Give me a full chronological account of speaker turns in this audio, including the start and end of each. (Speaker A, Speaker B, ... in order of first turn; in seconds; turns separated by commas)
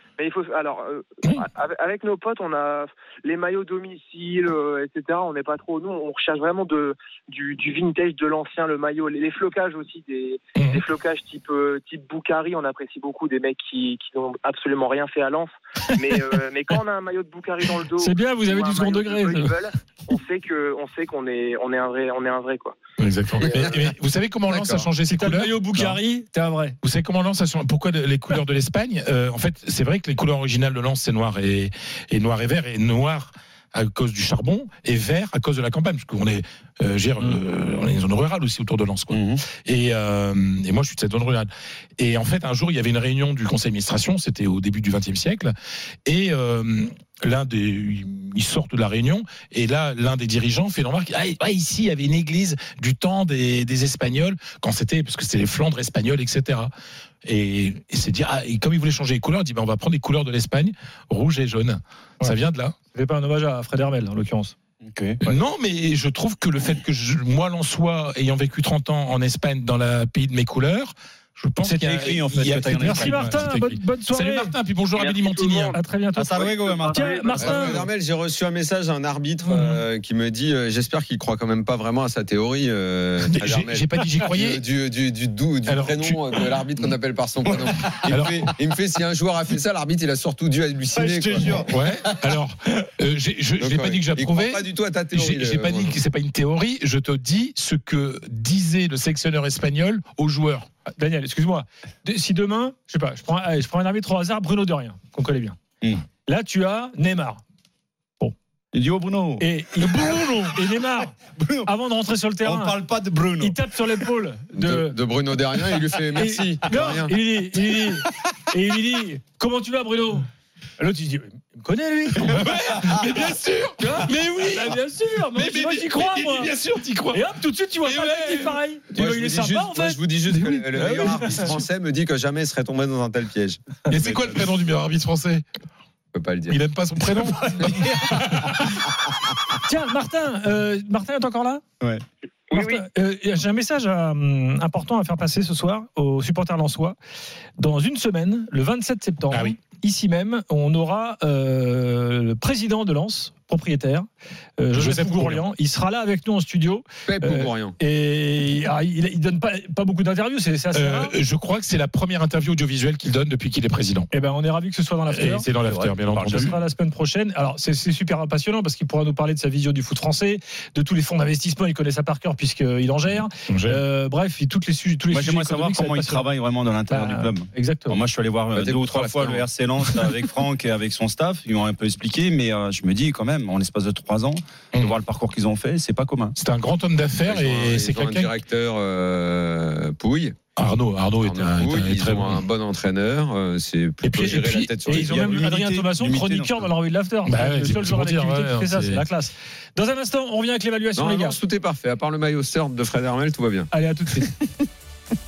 Speaker A: 0.2-22.8, Speaker B: 10.6-10.8, Speaker C: 17.9-19.6, Speaker B: 23.0-26.0, Speaker A: 23.4-23.8, Speaker D: 24.5-24.9, Speaker C: 25.1-26.8, Speaker B: 26.8-45.5, Speaker E: 39.1-39.5, Speaker B: 46.0-56.7, Speaker B: 57.2-62.8, Speaker C: 62.9-64.6, Speaker E: 64.8-65.2, Speaker B: 65.2-75.8, Speaker C: 71.6-72.0, Speaker E: 71.7-73.5, Speaker C: 72.8-74.5, Speaker A: 75.0-77.5, Speaker C: 75.7-76.4, Speaker E: 76.1-77.8, Speaker C: 76.9-77.8, Speaker D: 77.4-92.0, Speaker B: 79.5-79.8, Speaker B: 83.3-84.6, Speaker B: 85.7-86.4, Speaker B: 88.1-88.5, Speaker E: 91.0-91.8, Speaker B: 91.7-100.7, Speaker D: 93.6-96.0, Speaker C: 100.9-105.6, Speaker C: 106.3-107.4, Speaker E: 108.7-109.5, Speaker C: 109.4-112.8, Speaker E: 111.3-111.7, Speaker E: 112.4-113.6, Speaker C: 113.4-115.0, Speaker D: 114.5-117.1, Speaker C: 116.2-120.3, Speaker C: 120.8-122.5, Speaker B: 122.2-124.7, Speaker C: 123.8-126.5, Speaker B: 125.3-127.3, Speaker C: 127.1-130.0, Speaker B: 127.8-128.6, Speaker D: 128.9-133.6, Speaker B: 130.4-131.6, Speaker C: 130.8-131.5, Speaker B: 133.9-135.4, Speaker E: 134.0-134.4, Speaker D: 136.1-136.6, Speaker B: 136.5-138.5, Speaker C: 139.6-141.6, Speaker A: 142.5-142.8, Speaker C: 142.5-147.0, Speaker C: 147.6-154.1, Speaker B: 149.3-149.6, Speaker C: 154.6-161.2, Speaker B: 154.7-155.4, Speaker D: 157.1-157.8, Speaker B: 160.7-164.1, Speaker C: 164.1-165.5, Speaker B: 165.1-166.6, Speaker E: 165.6-166.5, Speaker C: 166.3-176.3, Speaker B: 173.5-173.8, Speaker E: 175.1-186.4, Speaker C: 176.9-178.0, Speaker D: 178.5-179.5, Speaker B: 186.4-188.3, Speaker D: 187.3-190.3, Speaker B: 190.6-192.4, Speaker D: 191.2-195.4, Speaker B: 194.0-194.8, Speaker C: 194.9-201.4, Speaker E: 194.9-196.7, Speaker B: 197.2-199.0, Speaker D: 201.0-203.7, Speaker C: 203.7-204.5